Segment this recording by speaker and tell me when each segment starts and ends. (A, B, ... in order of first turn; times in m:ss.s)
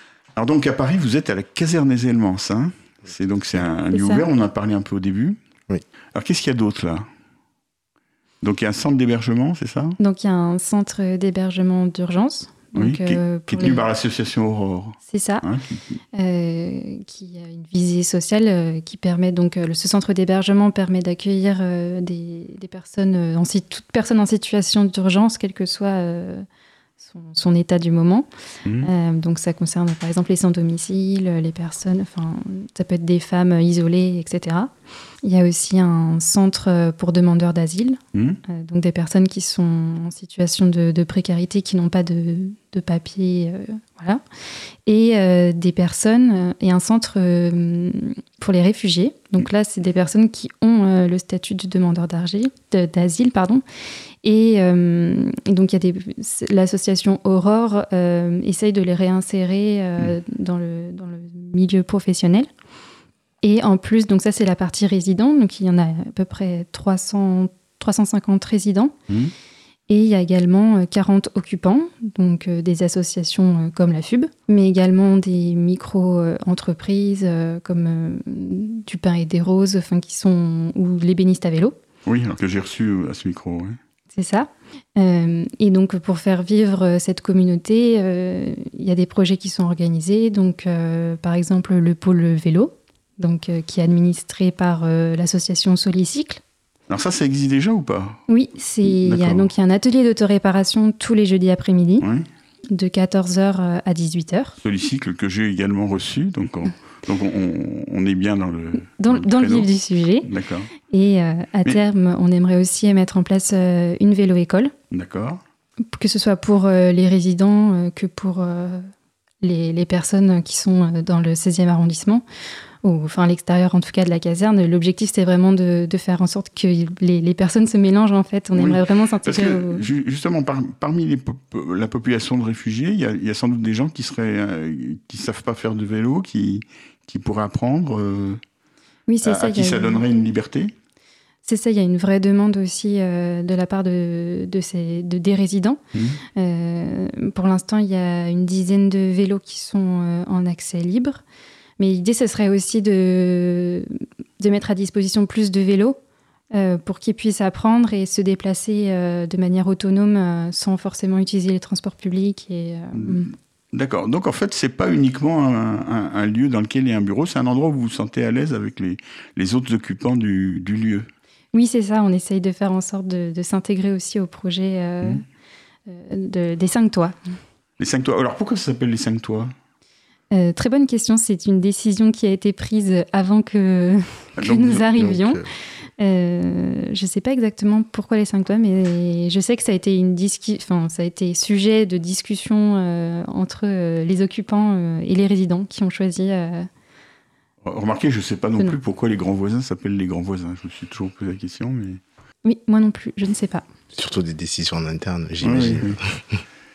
0:00.4-0:05.4 A
0:03.9-0:04.2 B
0:06.1-0:07.1 A
0:08.4-0:10.0 A
0:10.0-0:13.8 B
0:12.8-0:16.0 A
0:15.1-0:15.4 B
0:16.1-0:26.4 B
0:27.0-0:28.3 B
0:28.8-0:34.7 B
0:35.2-0:44.2 B
0:38.1-0:38.4 A
0:44.8-0:53.6 B
0:54.2-1:02.5 B
1:03.4-1:08.9 B
1:09.9-1:21.8 B
1:22.0-1:23.8 A
1:24.1-1:36.4 B
1:36.9-1:38.2 A
1:38.3-1:42.1 B
1:38.8-1:39.5 A
1:42.0-1:42.2 A
1:42.7-1:44.6 B
1:44.6-1:49.7 A
1:49.0-1:50.3 B
1:50.2-1:50.7 A
1:50.9-1:54.7 B
1:54.9-1:55.4 A
1:55.9-1:58.9 B
1:59.4-2:02.2 B
2:02.8-2:09.8 B
2:08.5-2:18.4 A
2:19.1-2:20.0 B
2:19.2-2:20.7 A
2:21.4-2:25.8 B
2:25.9-2:26.2 A
2:26.4-2:31.2 B
2:31.8-2:36.0 B
2:36.5-2:43.3 B
2:43.0-2:51.1 A
2:51.5-2:55.2 B
2:55.9-2:57.1 B
2:57.8-2:59.5 A
3:00.3-3:05.4 B
3:04.4-3:04.8 A
3:05.0-3:05.5 C
3:06.0-3:16.7 B
3:17.6-3:22.0 A
3:22.4-3:23.6 B
3:23.9-3:26.4 C
3:25.4-3:26.0 A